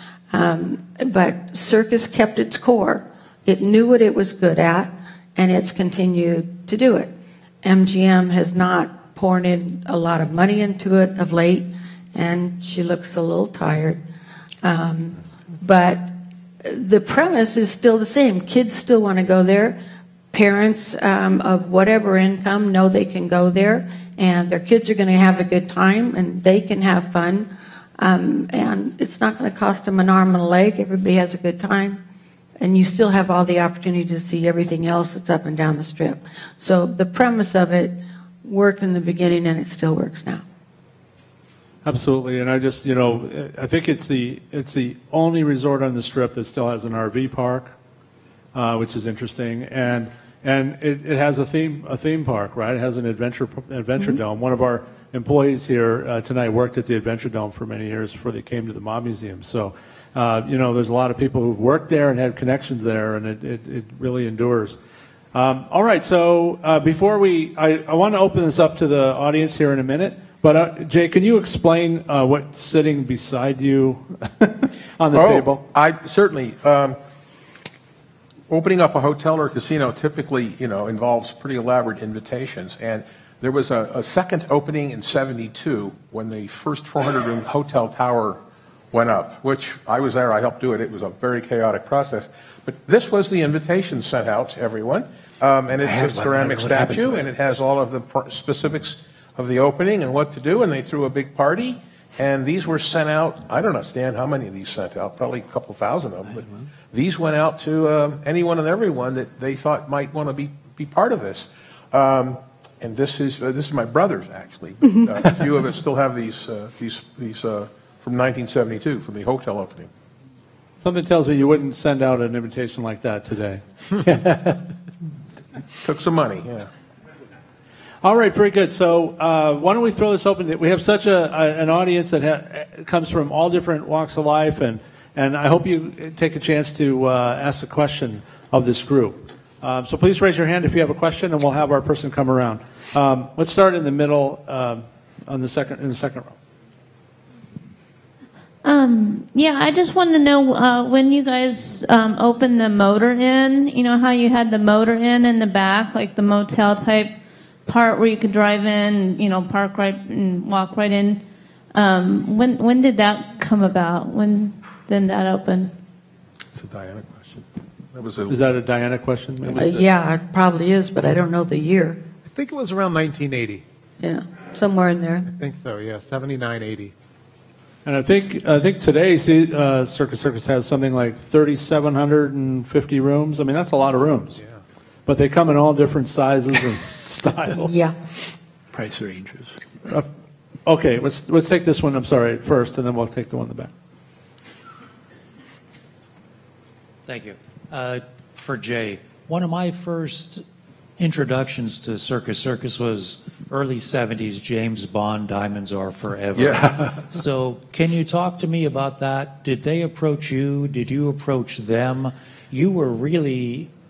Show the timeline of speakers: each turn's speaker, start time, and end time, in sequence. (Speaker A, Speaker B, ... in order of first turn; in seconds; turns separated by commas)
Speaker A: 0.3-14.0, Speaker A: 14.6-19.8, Speaker A: 20.3-32.0, Speaker A: 32.6-40.4, Speaker B: 41.8-47.7, Speaker B: 48.5-64.8, Speaker B: 65.3-75.6, Speaker C: 75.1-77.0, Speaker C: 78.5-88.4, Speaker C: 88.9-119.9, Speaker D: 95.8-97.2, Speaker B: 120.8-123.6, Speaker C: 125.8-126.7, Speaker B: 128.0-146.3, Speaker E: 148.6-161.2, Speaker E: 161.7-165.7, Speaker C: 166.5-168.4, Speaker B: 168.3-169.9, Speaker A: 169.6-172.0, Speaker F: 172.2-173.6, Speaker A: 174.0-175.3, Speaker F: 175.3-176.9, Speaker B: 177.8-184.4, Speaker B: 185.1-187.8, Speaker A: 187.6-188.0, Speaker D: 188.7-189.6, Speaker B: 190.7-193.7, Speaker G: 197.1-200.4, Speaker G: 201.0-213.7, Speaker C: 206.4-206.8